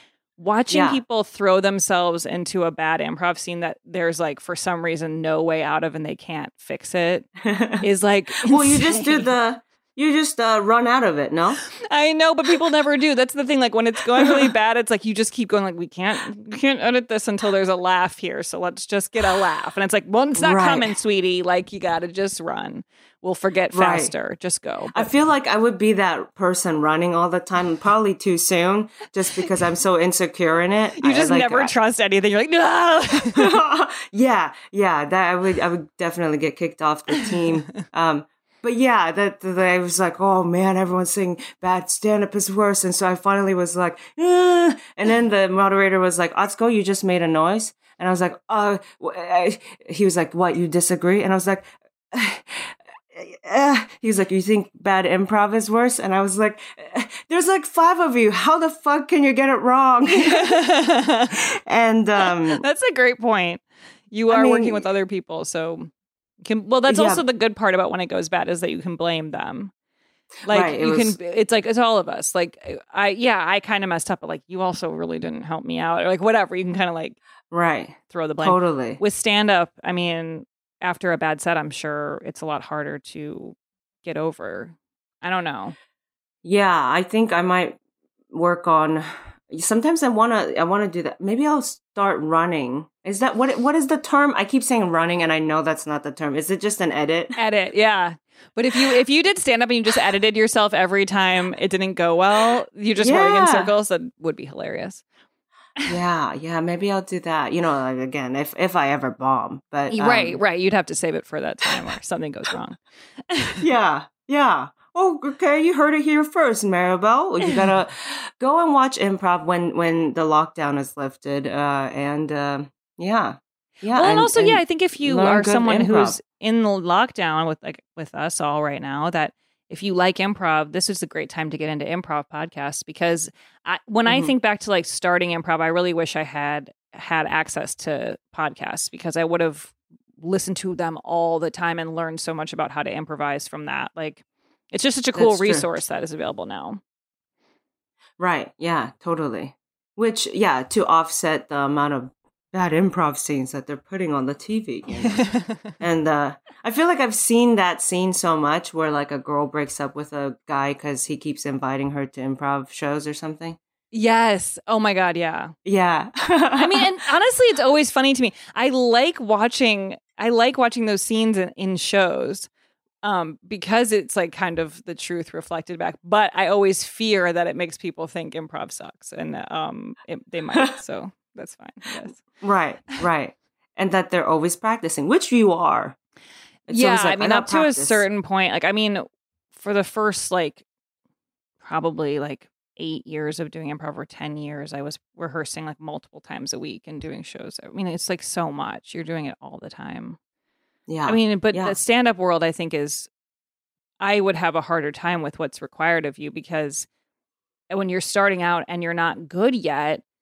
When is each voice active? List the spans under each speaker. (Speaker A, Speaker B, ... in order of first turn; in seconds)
Speaker A: 0.4-7.3, 7.8-9.3, 11.9-25.1, 31.0-33.6, 60.1-61.4, 62.2-65.9, 66.4-69.7, 70.5-77.2, 78.1-85.8, 97.4-105.0, 109.9-113.6, 123.9-146.8, 155.0-155.7, 163.9-165.5, 166.6-172.5, 173.0-182.2, 186.7-190.6, 191.6-200.2, 201.0-203.1, 204.0-206.9, 207.7-210.0
Speaker B: 0.7-1.0, 7.4-11.6, 20.4-20.9, 23.7-24.1, 24.9-31.7, 33.3-60.6, 61.3-62.6, 64.3-64.9, 66.9-67.2, 70.5-71.2, 77.5-79.0, 86.4-87.8, 88.3-97.3, 103.0-103.7, 105.8-110.4, 113.6-126.2, 134.1-134.3, 145.1-145.7, 148.2-163.6, 165.6-166.9, 182.2-185.9, 186.7-188.0, 200.9-201.8